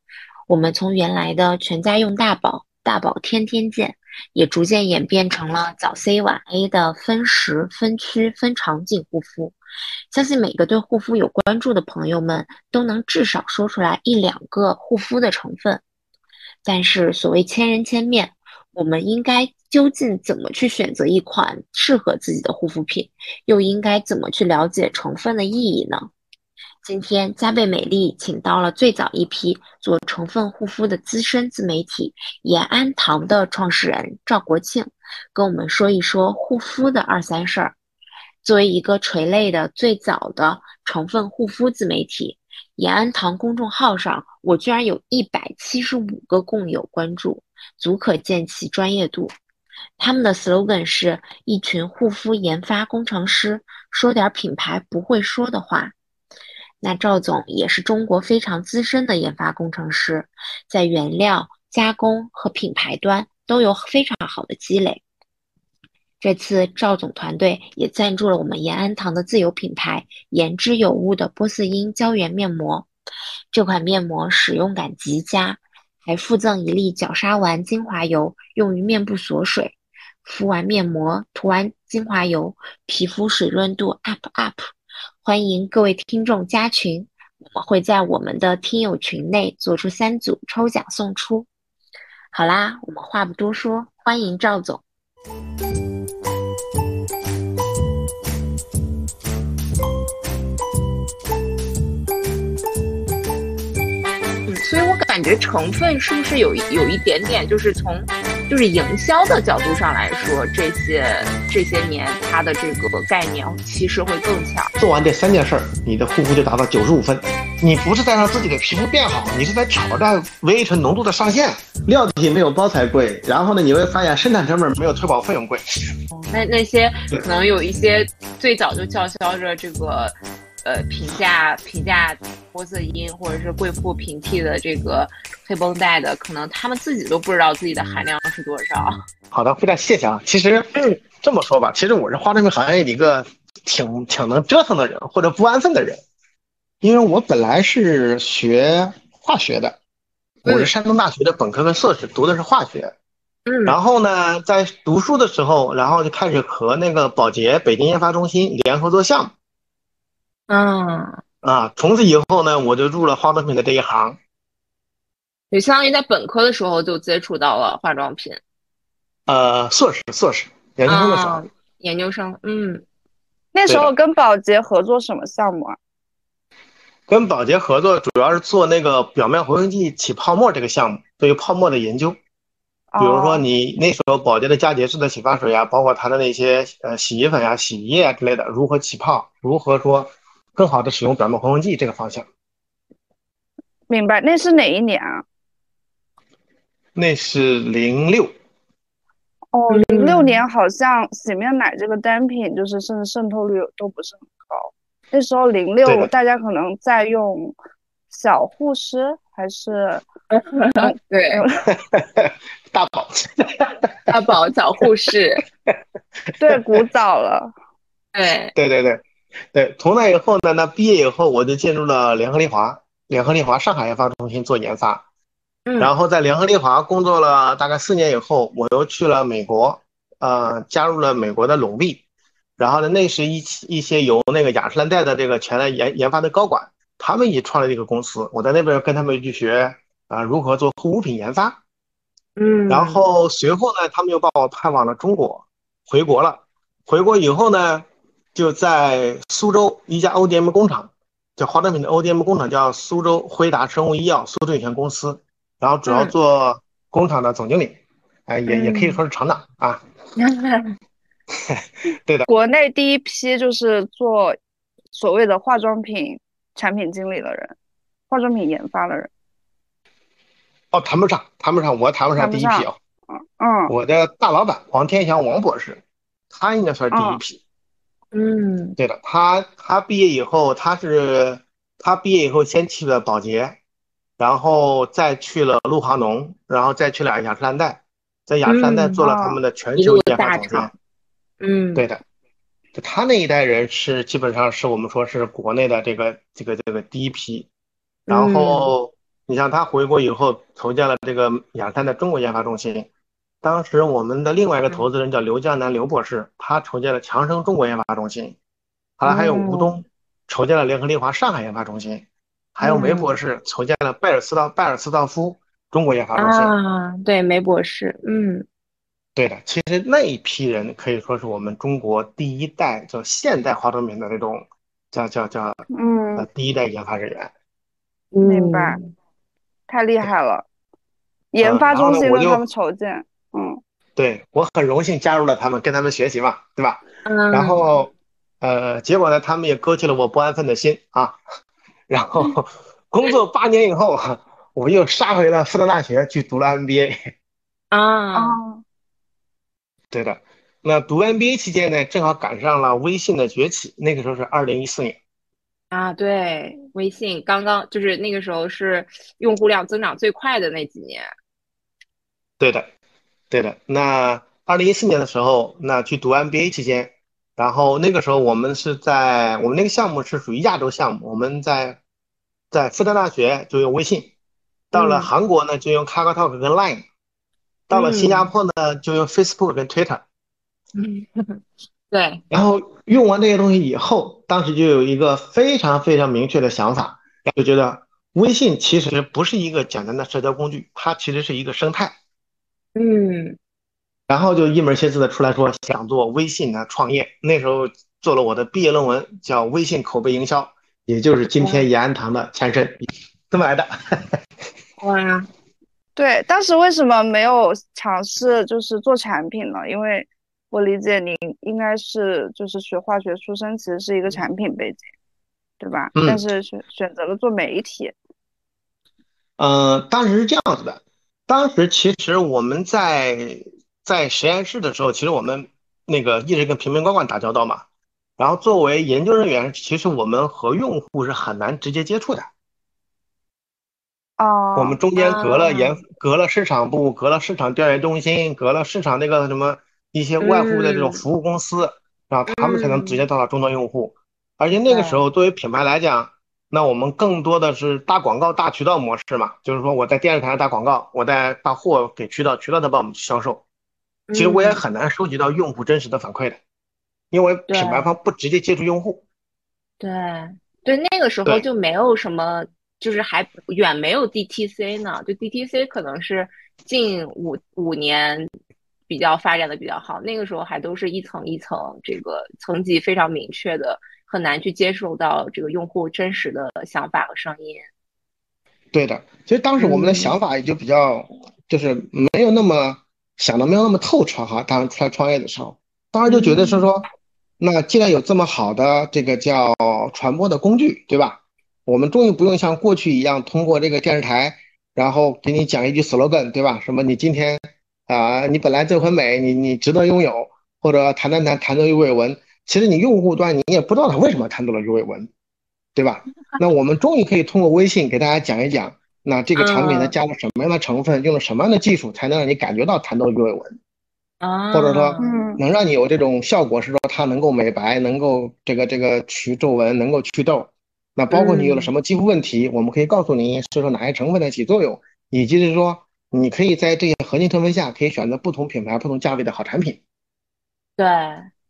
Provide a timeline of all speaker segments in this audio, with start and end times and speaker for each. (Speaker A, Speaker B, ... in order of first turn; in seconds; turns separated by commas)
Speaker A: 0.5-9.6, Speaker A: 10.1-15.8, Speaker A: 16.6-26.1, Speaker A: 26.8-37.7, Speaker A: 38.4-49.3, Speaker A: 50.0-55.9, Speaker A: 56.8-65.0, Speaker A: 66.2-72.9, Speaker A: 73.5-84.7, Speaker A: 85.2-91.5, Speaker A: 92.3-94.8, Speaker B: 104.5-114.7, Speaker C: 114.8-125.9, Speaker B: 126.1-139.0, Speaker C: 139.3-146.0, Speaker C: 146.8-149.8, Speaker C: 150.4-152.9, Speaker B: 150.4-150.7, Speaker B: 153.5-153.8, Speaker C: 153.7-159.3, Speaker B: 160.5-161.2, Speaker C: 161.4-164.2, Speaker B: 165.5-168.4, Speaker C: 169.3-171.4, Speaker B: 170.9-172.8, Speaker D: 173.5-175.8, Speaker C: 173.7-173.9, Speaker C: 177.1-182.2, Speaker D: 182.9-183.4, Speaker C: 183.0-192.3, Speaker D: 193.9-195.2, Speaker C: 196.9-198.3, Speaker D: 199.5-207.5, Speaker B: 199.7-200.4, Speaker C: 205.8-206.1, Speaker D: 208.1-210.0, Speaker B: 210.3-211.4, Speaker D: 210.8-211.6, Speaker C: 211.7-214.2, Speaker B: 214.1-215.4, Speaker D: 216.4-217.5, Speaker C: 216.5-216.8, Speaker B: 218.1-218.5, Speaker C: 218.5-225.0, Speaker B: 225.7-225.9, Speaker C: 225.8-232.0, Speaker C: 232.6-241.6, Speaker B: 242.4-243.0, Speaker C: 242.7-259.8, Speaker B: 255.8-256.1, Speaker B: 258.5-259.0, Speaker B: 260.2-260.7, Speaker C: 261.4-262.3, Speaker D: 262.2-264.4, Speaker D: 264.9-267.5, Speaker D: 268.1-269.1, Speaker C: 270.7-272.8, Speaker D: 272.2-273.7, Speaker C: 273.7-275.8, Speaker C: 276.3-277.4, Speaker D: 276.9-277.2, Speaker B: 278.1-278.8, Speaker C: 278.8-283.6, Speaker C: 284.2-290.7, Speaker B: 288.4-289.0, Speaker D: 289.0-289.4, Speaker B: 289.8-290.7, Speaker B: 291.4-291.9, Speaker C: 291.7-292.0, Speaker C: 292.7-297.5, Speaker B: 298.1-298.7, Speaker C: 298.1-302.9, Speaker C: 303.4-308.4, Speaker C: 309.0-312.0, Speaker B: 309.0-309.7, Speaker C: 312.5-316.5, Speaker B: 312.6-313.1, Speaker B: 316.2-318.4, Speaker C: 319.1-325.6, Speaker D: 325.7-326.3, Speaker C: 326.1-327.3, Speaker B: 328.1-328.9, Speaker D: 328.2-328.8, Speaker D: 329.7-330.4, Speaker D: 331.3-333.6, Speaker C: 331.4-332.4, Speaker C: 333.9-337.9, Speaker B: 337.1-337.6, Speaker C: 338.4-341.2, Speaker C: 341.9-347.1, Speaker B: 347.7-348.4, Speaker D: 348.1-348.6, Speaker C: 349.9-355.0, Speaker B: 355.7-361.1, Speaker C: 362.4-362.7, Speaker C: 363.3-371.8, Speaker C: 372.5-374.1, Speaker C: 374.7-376.8, Speaker B: 374.7-375.1, Speaker C: 377.7-380.0, Speaker B: 377.7-378.3, Speaker B: 380.7-382.2, Speaker C: 382.3-391.9, Speaker B: 392.7-393.4, Speaker C: 394.1-404.2, Speaker B: 404.8-405.3, Speaker D: 405.9-414.8, Speaker D: 415.6-417.9, Speaker C: 415.9-416.2, Speaker C: 419.4-427.6, Speaker C: 428.2-432.3, Speaker D: 434.2-434.8, Speaker C: 434.5-453.4, Speaker B: 434.9-435.7, Speaker B: 440.2-441.0, Speaker B: 442.3-443.0, Speaker B: 444.7-445.0, Speaker B: 454.1-454.6, Speaker C: 454.1-456.4, Speaker C: 457.1-459.0, Speaker B: 457.5-457.9, Speaker B: 459.8-468.3, Speaker B: 468.9-477.6, Speaker C: 478.7-486.9, Speaker B: 479.6-480.1, Speaker B: 486.1-486.7, Speaker C: 487.4-505.1, Speaker C: 505.7-513.5, Speaker B: 509.3-509.9, Speaker B: 514.2-515.2, Speaker C: 514.5-529.8, Speaker D: 515.0-515.4, Speaker B: 521.1-521.7, Speaker B: 530.8-531.3